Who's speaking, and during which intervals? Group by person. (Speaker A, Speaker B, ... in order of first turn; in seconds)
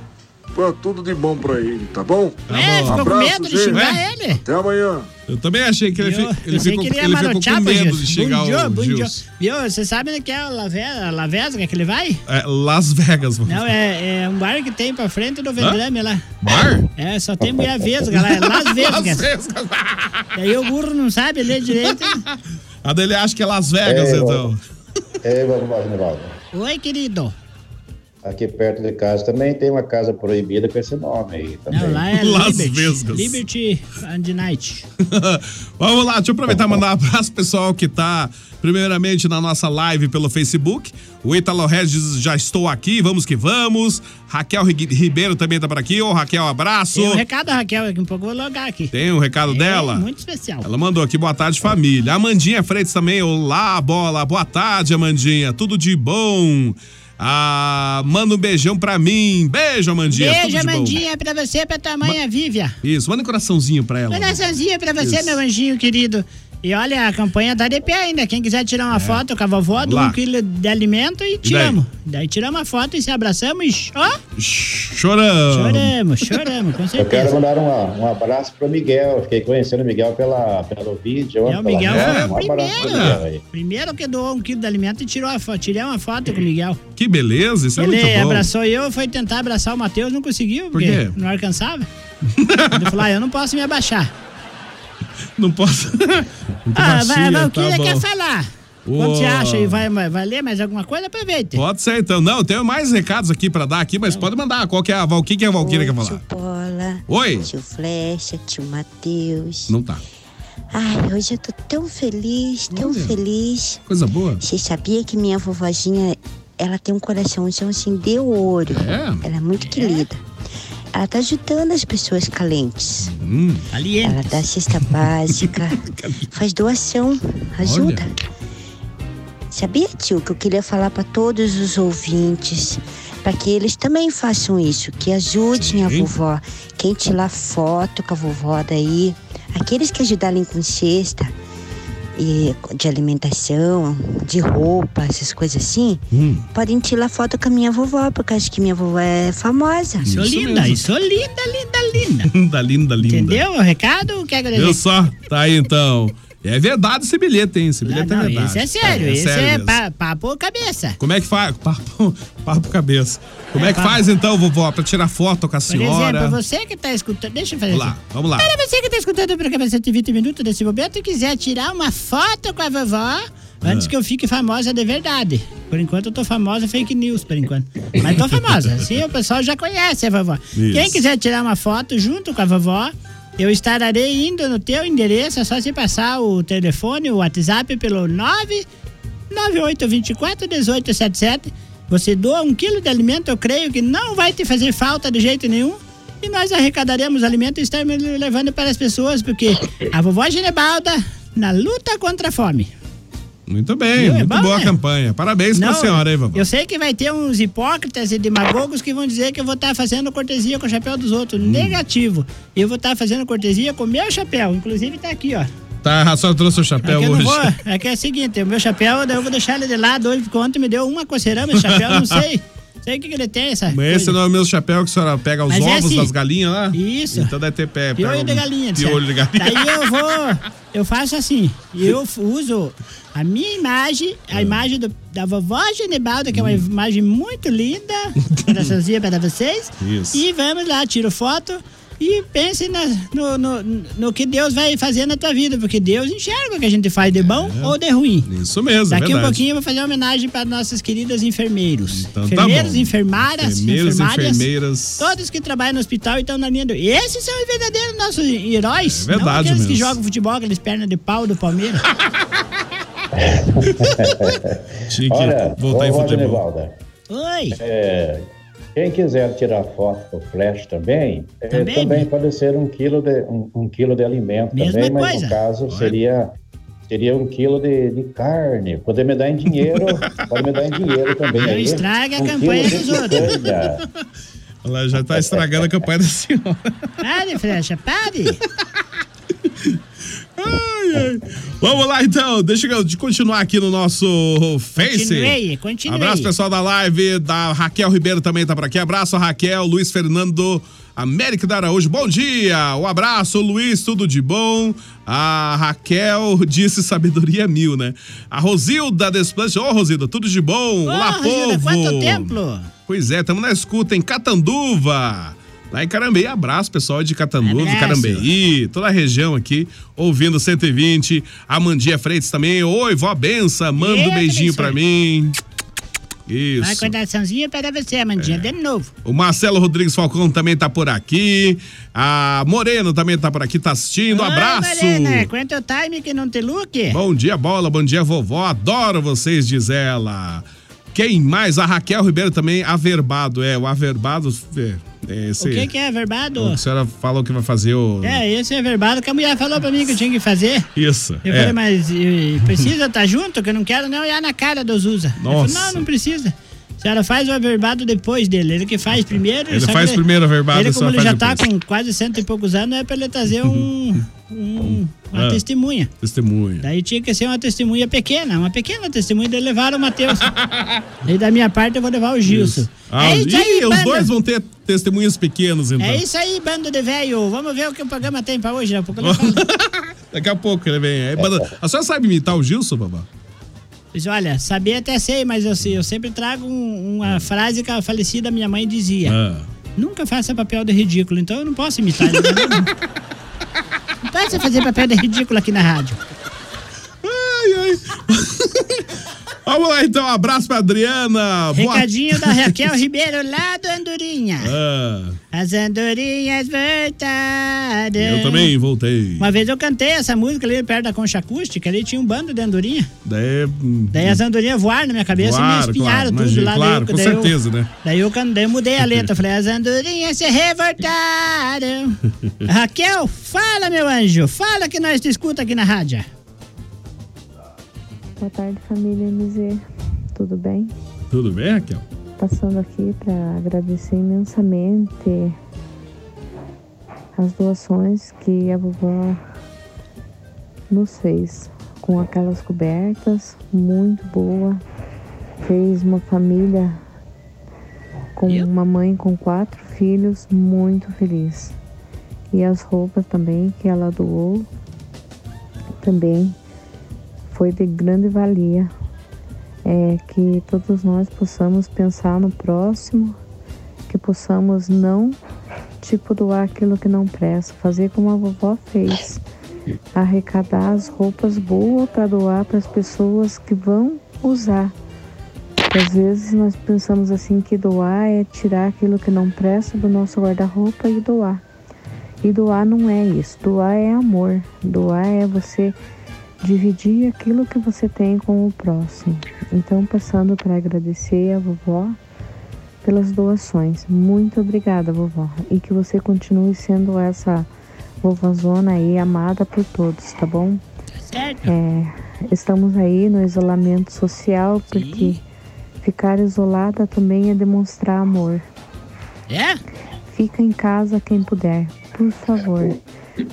Speaker A: 0.5-5.1
Speaker B: 2.5-3.1, 3.7-4.0, 5.3-9.2, 12.3-13.7, 16.4-16.9, 18.1-20.3, 21.6-22.2, 22.8-24.6, 32.1-33.4, 35.0-47.2, 48.9-50.1, 50.6-61.0, 62.8-65.4, 68.9-69.2, 69.8-70.2, 71.4-71.8, 74.4-76.5, 81.9-83.2, 87.0-88.5, 90.7-91.2, 92.4-93.0, 95.4-98.0, 98.9-99.9, 101.5-106.2, 107.1-107.5, 109.7-110.0, 112.7-113.2, 113.9-114.4, 118.7-119.2, 123.0-123.6, 125.3-126.2, 127.6-128.0, 135.6-136.1, 146.1-146.4, 150.0-150.8, 152.3-153.4, 154.5-159.8, 161.0-166.4, 167.7-168.5, 173.6-173.9, 178.0-178.3, 180.6-181.0, 203.5-206.4, 211.4-211.8, 215.8-217.6, 221.5-222.2, 223.7-230.0, 234.3-234.6, 236.3-236.6, 238.3-238.7, 239.8-240.2, 247.2-249.4, 251.9-255.2, 258.9-260.0, 264.9-266.4, 275.7-276.0, 280.0-280.3, 283.1-283.4, 284.6-286.7, 289.5-289.8, 290.4-325.4, 326.3-326.9, 328.2-328.5, 329.1-335.3, 336.9-345.7, 346.4-348.2, 350.8-351.6, 355.2-355.9, 359.5-361.4, 364.6-365.4, 366.0-366.7, 370.2-370.9, 372.3-376.0, 379.0-383.1, 389.1-389.5, 392.0-392.6, 397.0-398.9, 399.5-402.8, 404.4-405.2, 408.0-409.3, 413.1-414.2, 415.1-417.7, 431.1-431.9
Speaker C: 2.5-4.4, 6.0-12.2, 13.5-16.2, 17.0-19.3, 20.4-22.2, 26.5-27.4, 31.7-34.9, 46.9-48.9, 49.5-50.7, 60.1-62.8, 64.1-74.2, 75.5-77.3, 81.5-86.8, 87.8-91.9, 92.7-94.1, 96.8-101.6, 119.7-120.0, 123.7-124.4, 150.1-152.3, 153.0-154.8, 157.9-161.0, 163.6-164.0, 165.7-188.7, 189.3-202.7, 204.0-204.7, 205.6-215.5, 216.8-224.2, 225.5-226.1, 226.7-227.3, 228.0-248.3, 248.9-254.5, 255.0-261.9, 267.1-267.6, 271.5-272.1, 274.5-275.4, 281.4-283.3, 287.0-288.4, 294.8-296.3, 310.9-312.7, 317.4-318.3, 323.8-324.8, 326.6-328.9, 334.1-337.0, 345.4-346.6, 348.0-350.7, 351.2-365.9, 366.6-370.3, 371.1-374.1, 375.8-379.4, 383.9-389.2, 389.8-392.7, 394.1-396.0, 401.6-404.5, 405.3-408.5, 409.2-412.9, 413.9-426.1, 501.1-501.5, 504.7-505.2, 509.3-509.6
Speaker D: 23.8-24.5, 25.2-26.4, 28.2-32.1, 36.5-36.8, 77.0-83.4, 263.1-266.8, 267.5-276.3, 276.9-283.8, 284.9-285.9
Speaker E: 105.6-109.7, 110.7-113.8, 114.4-120.2, 120.9-123.1, 124.0-125.8, 126.3-128.1, 129.5-141.3, 142.2-150.1
Speaker F: 428.2-429.6, 430.1-430.7, 432.2-435.4, 437.1-439.2, 440.7-444.6, 445.4-446.8, 448.1-451.6, 452.3-454.5, 455.8-456.4, 457.3-458.7, 459.6-463.2, 463.9-465.2, 465.8-469.2, 469.9-474.7, 475.7-481.4, 482.2-485.8, 486.4-492.0, 492.8-497.5, 498.0-500.6, 501.5-505.2, 505.8-508.5, 510.1-512.8